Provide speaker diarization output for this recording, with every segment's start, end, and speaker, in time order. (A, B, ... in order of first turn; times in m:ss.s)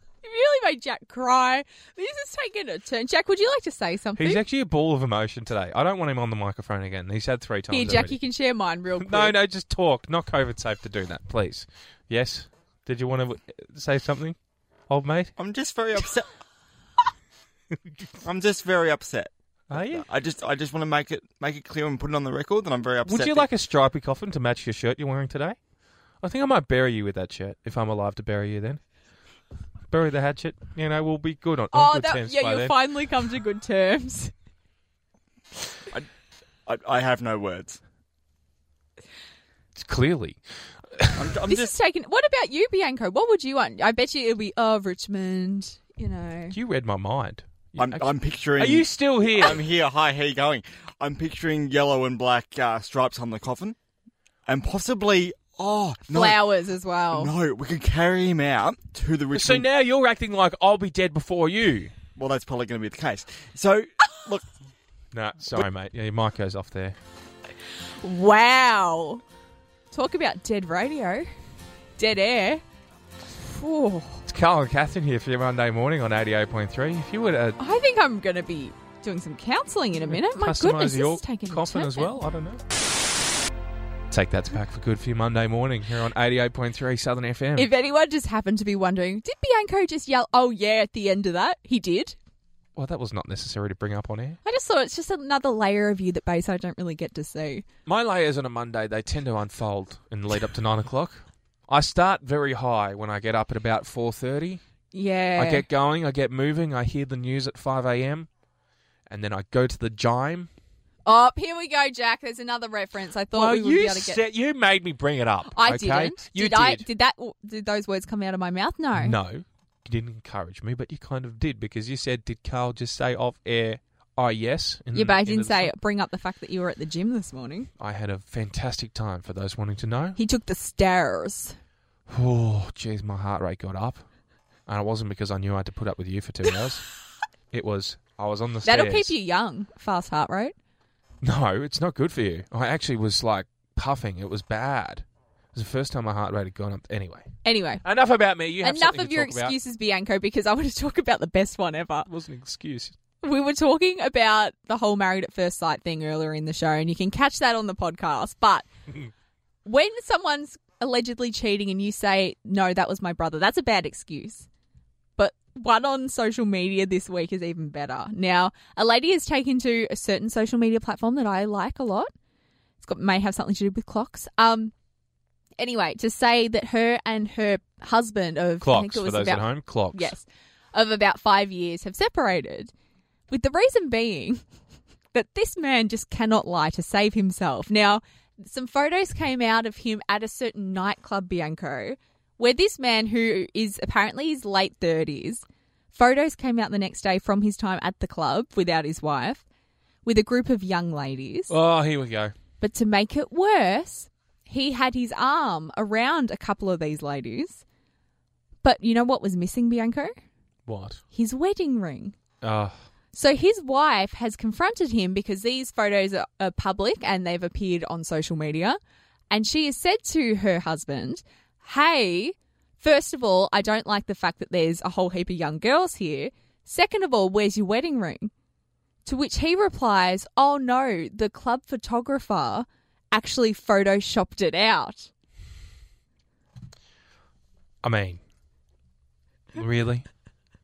0:00.2-0:04.4 A
0:04.2-0:08.2 B
0:07.7-0:09.4 A
0:09.0-0:14.4 B
0:14.9-0:15.3 B
0:15.4-0:16.3 C
0:18.2-0:23.5 C
0:19.7-0:20.1 B
0:23.0-0:25.6 B
0:26.2-0:28.8 B
0:29.9-0:32.8 B
0:31.7-0:34.3 A
0:36.7-0:37.8 C
0:39.8-0:40.4 B
0:41.0-0:41.3 B
0:41.1-0:41.8 C
0:41.5-0:46.6 A
0:46.5-0:49.6 B
0:47.8-0:53.8 C
0:54.5-0:56.4 C
0:56.1-0:57.3 A
0:57.1-0:59.7 C
0:59.3-1:01.9 B
1:02.2-1:04.5 C
1:05.1-1:07.0 B
1:08.0-1:09.2 A
1:09.9-1:11.3 A
1:12.0-1:12.6 A
1:13.4-1:14.2 A
1:14.3-1:17.6 B
1:17.6-1:22.2 A
1:20.1-1:22.6 B
1:24.1-1:27.7 B
1:27.6-1:32.2 A
1:32.8-1:34.4 B
1:34.4-1:37.6 A
1:37.9-1:44.6 B
1:44.9-1:45.7 A
1:45.4-1:48.3 B
1:49.1-1:50.5 B
1:51.1-1:54.2 A
1:53.3-1:56.9 B
1:55.5-1:59.2 A
1:59.0-2:05.7 B
2:04.9-2:07.7 A
2:07.8-2:10.2 B
2:10.2-2:11.6 A
2:12.1-2:14.0 B
2:14.7-2:16.9 B
2:17.5-2:19.2 B
2:18.6-2:20.6 A
2:21.2-2:27.3 B
2:27.4-2:27.8 A
2:27.8-2:29.6 B
2:28.6-2:32.1 A
2:32.1-2:33.0 B
2:33.2-2:38.7 A
2:39.6-2:44.5 A
2:45.2-2:52.1 A
2:52.8-2:54.7 A
2:55.6-3:02.7 A
2:58.6-3:00.1 B
3:03.3-3:04.4 A
3:05.1-3:19.4 A
3:20.0-3:21.5 A
3:21.5-3:22.4 B
3:22.6-3:27.6 A
3:28.6-3:30.2 A
3:30.7-3:31.0 B
3:31.1-3:32.2 A
3:32.4-3:32.8 B
3:33.1-3:38.8 A
3:39.3-3:48.3 A
3:49.0-3:55.1 A
3:57.8-3:58.2 B
3:59.5-4:00.1 B